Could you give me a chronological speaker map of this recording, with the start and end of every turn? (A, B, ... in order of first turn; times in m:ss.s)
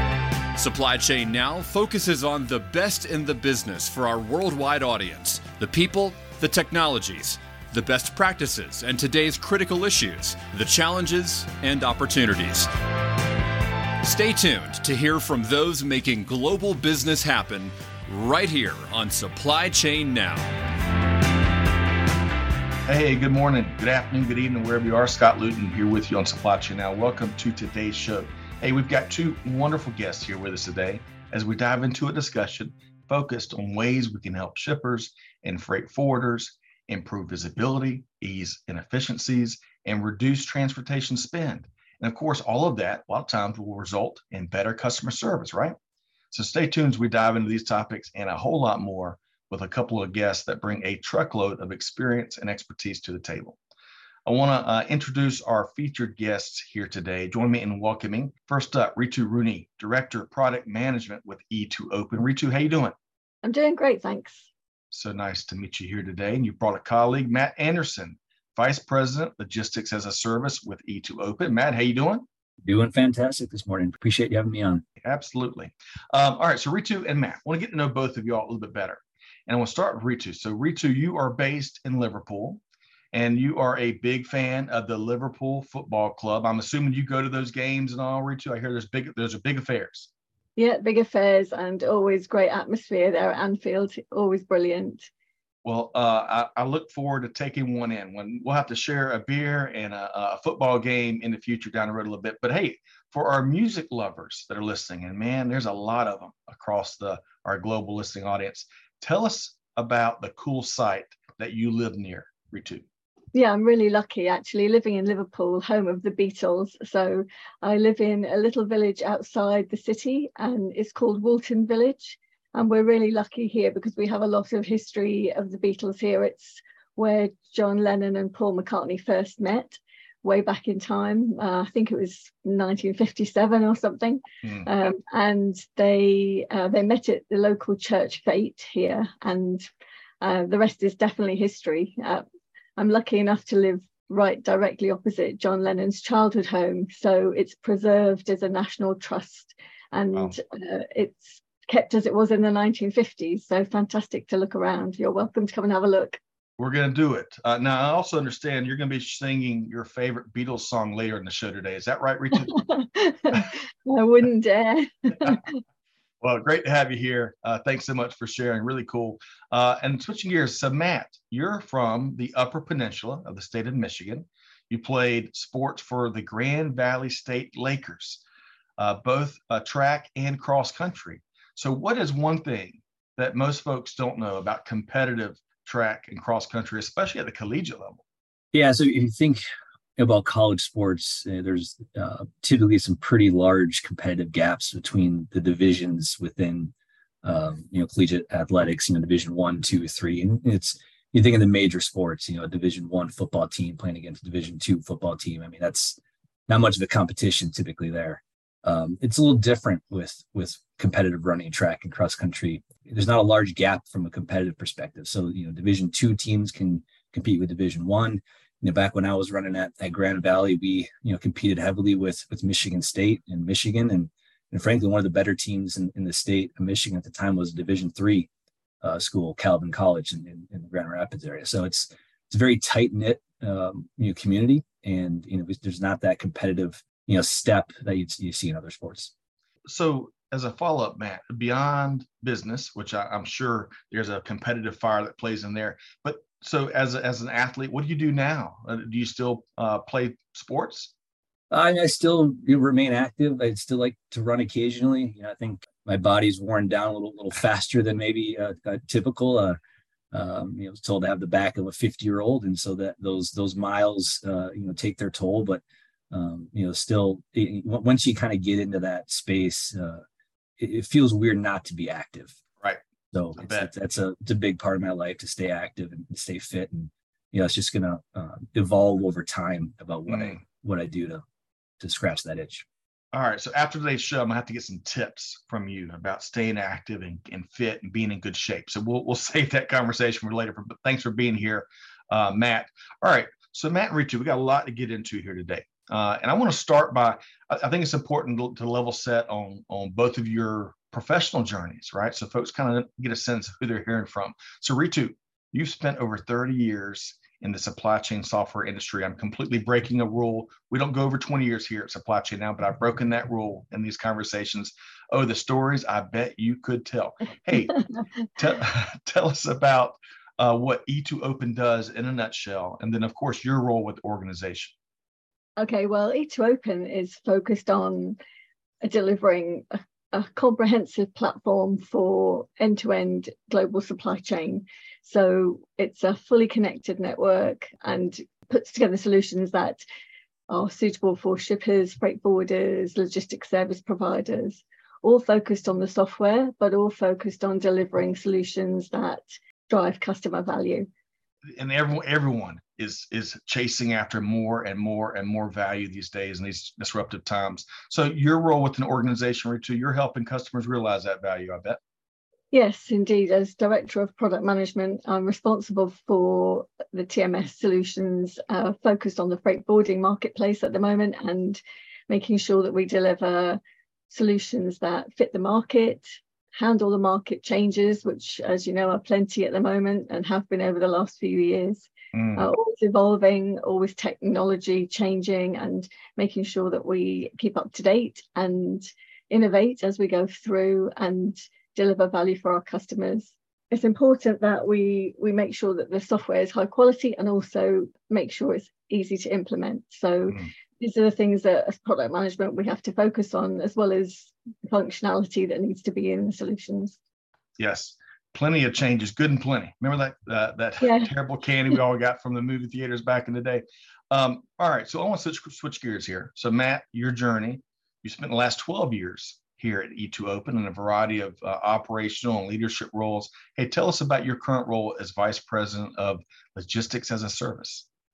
0:00.5-0:12.7 A
0:14.0-0:20.6 A
0:22.9-0:45.8 B
0:46.3-0:53.6 B
0:54.2-1:02.9 B
1:03.4-1:04.5 C
1:04.9-1:12.2 B
1:12.6-1:14.8 D
1:15.0-1:22.6 B
1:23.1-1:30.1 B
1:30.6-1:35.1 C
1:35.6-1:52.8 B
1:53.3-2:19.7 C
2:20.2-2:22.2 C
2:22.8-2:36.2 C
2:36.6-2:42.6 B
2:42.5-2:45.6 C
2:46.2-2:58.2 B
2:58.8-3:08.0 B
3:08.5-3:09.4 D
3:10.0-3:48.3 D
3:48.8-3:59.1 D
3:59.7-4:10.9 B
4:11.5-4:19.6 D
4:20.1-4:30.0 D
4:30.6-4:32.4 D
4:33.1-4:41.2 D
4:33.4-4:33.7 B
4:40.1-4:40.4 B
4:41.8-4:42.6 D
4:43.1-5:24.7 B
5:25.6-5:28.2 C
5:28.8-5:39.8 C
5:40.5-5:50.9 C
5:51.5-6:01.8 B
6:02.5-6:47.0 C
6:22.1-6:22.5 B
6:47.6-7:07.9 B
6:50.8-6:51.1 C